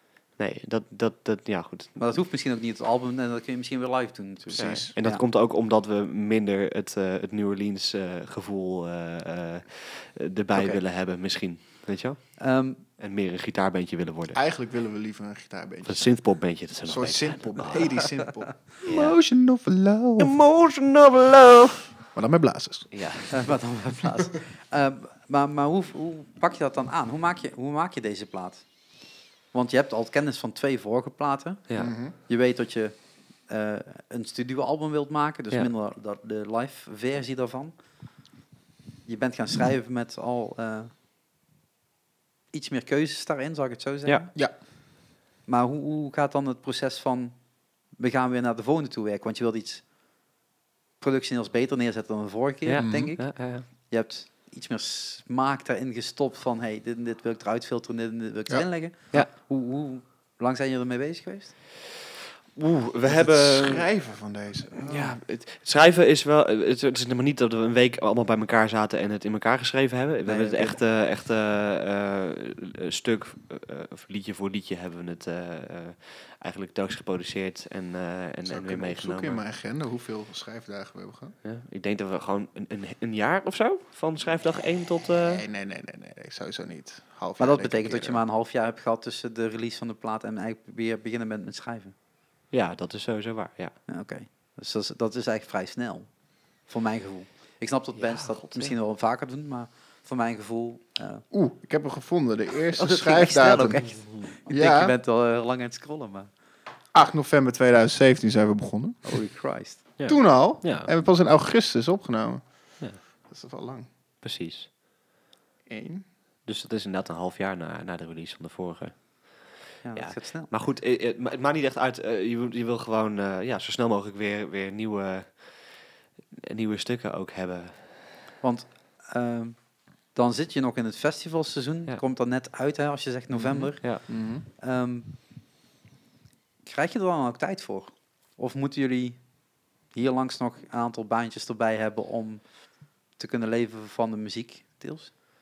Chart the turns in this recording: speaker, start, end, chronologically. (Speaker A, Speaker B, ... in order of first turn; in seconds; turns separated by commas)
Speaker A: 0.4-2.2, Speaker B: 2.0-5.2, Speaker C: 4.5-4.9, Speaker A: 4.6-14.4, Speaker B: 10.5-10.8, Speaker B: 12.4-12.8, Speaker C: 14.3-16.1, Speaker A: 15.8-18.2, Speaker C: 16.8-20.3, Speaker A: 18.8-19.2, Speaker A: 20.2-22.0, Speaker C: 22.1-23.3, Speaker A: 22.9-23.5, Speaker B: 23.3-28.6, Speaker B: 29.5-37.8, Speaker A: 31.7-31.9, Speaker C: 31.8-32.1, Speaker B: 39.1-40.9, Speaker B: 42.5-44.4, Speaker B: 45.5-47.4, Speaker B: 47.9-49.9, Speaker B: 51.0-61.5, Speaker A: 52.7-53.7, Speaker C: 52.8-53.1, Speaker A: 62.5-63.9, Speaker C: 63.0-65.2, Speaker A: 64.8-79.4, Speaker B: 70.3-70.8, Speaker C: 78.5-81.3, Speaker A: 81.4-85.4, Speaker C: 85.2-88.2, Speaker B: 87.4-91.9, Speaker A: 92.5-93.8, Speaker B: 93.9-96.1, Speaker B: 96.7-101.2, Speaker A: 98.0-98.8, Speaker C: 101.3-105.0, Speaker B: 102.8-106.3, Speaker A: 103.8-104.3, Speaker C: 106.9-109.2, Speaker B: 109.0-109.8, Speaker A: 110.0-110.9, Speaker C: 110.1-113.9, Speaker A: 114.2-114.7, Speaker C: 115.7-116.0, Speaker A: 116.5-125.9, Speaker B: 119.8-120.5, Speaker A: 126.5-128.1, Speaker B: 128.4-135.1, Speaker A: 133.3-134.1, Speaker C: 134.1-134.4, Speaker B: 136.7-139.2, Speaker B: 139.9-142.5, Speaker B: 143.2-145.1